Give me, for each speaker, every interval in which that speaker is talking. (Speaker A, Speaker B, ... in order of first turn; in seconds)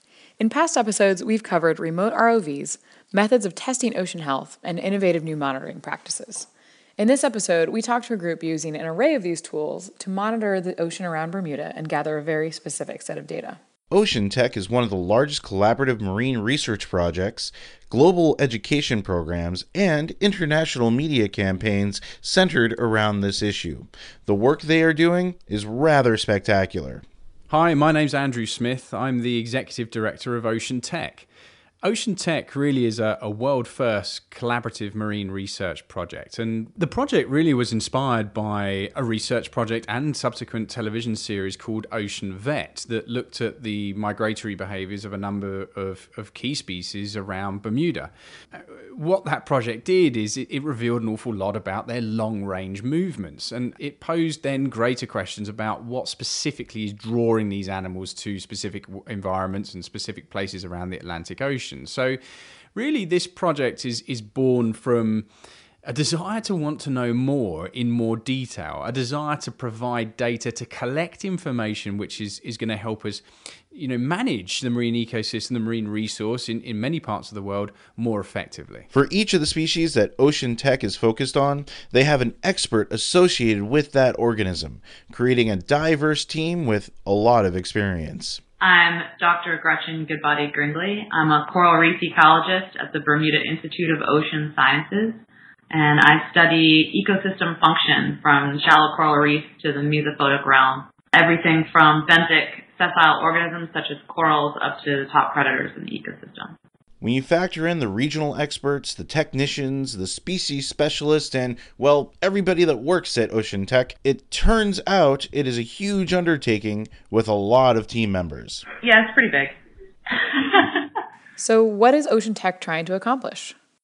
Speaker A: 0.4-13.6, 121.4-123.5
Speaker B: 13.9-27.0, 78.9-88.4, 107.0-118.7
Speaker C: 27.5-31.3, 31.8-62.2, 62.7-65.3, 65.9-78.9
Speaker D: 88.6-106.5, 118.8-119.5, 120.1-120.9